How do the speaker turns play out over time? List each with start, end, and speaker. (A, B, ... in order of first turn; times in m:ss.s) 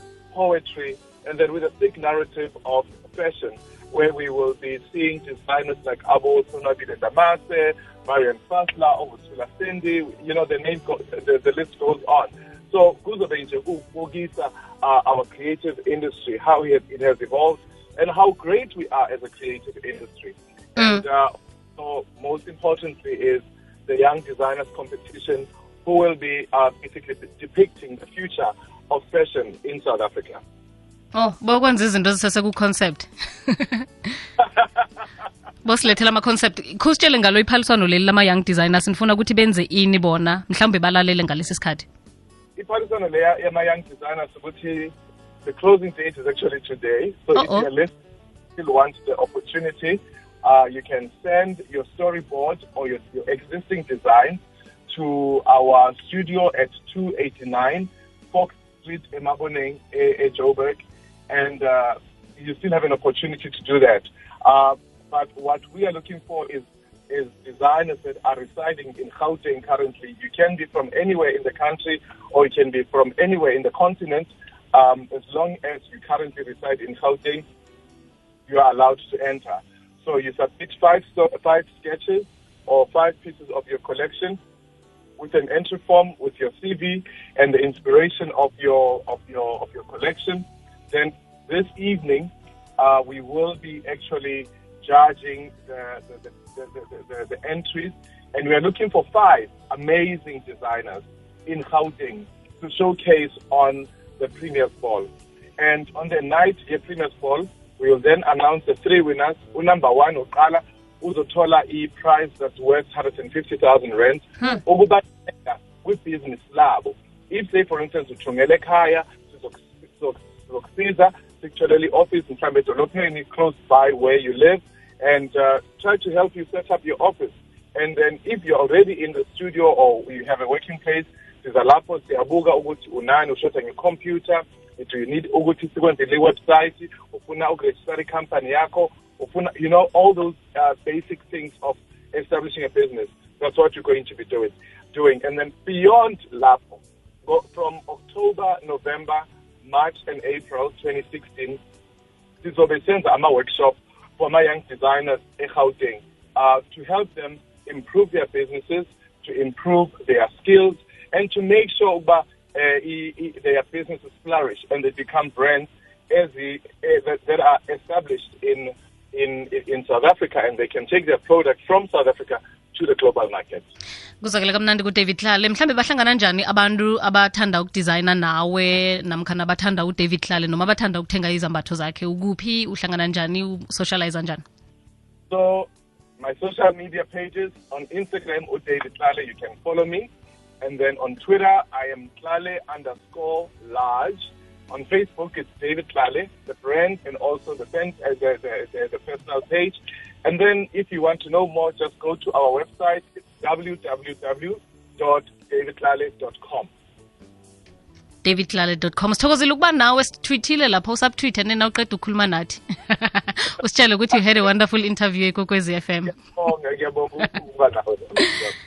0:00.3-0:30.4 A
0:20.8-0:21.0 B
0:31.1-0:34.1 B
0:34.4-0:34.7 A
0:35.6-0:41.9 B
0:42.6-0:47.9 A
0:47.4-0:47.7 B
0:48.6-1:17.4 A
1:18.5-1:24.4 A
1:25.2-2:31.6 A
2:32.4-2:53.6 A
2:54.2-3:04.4 B
3:05.3-3:10.1 A
3:10.6-3:26.7 A
3:28.2-3:36.2 B
3:36.1-3:38.6 A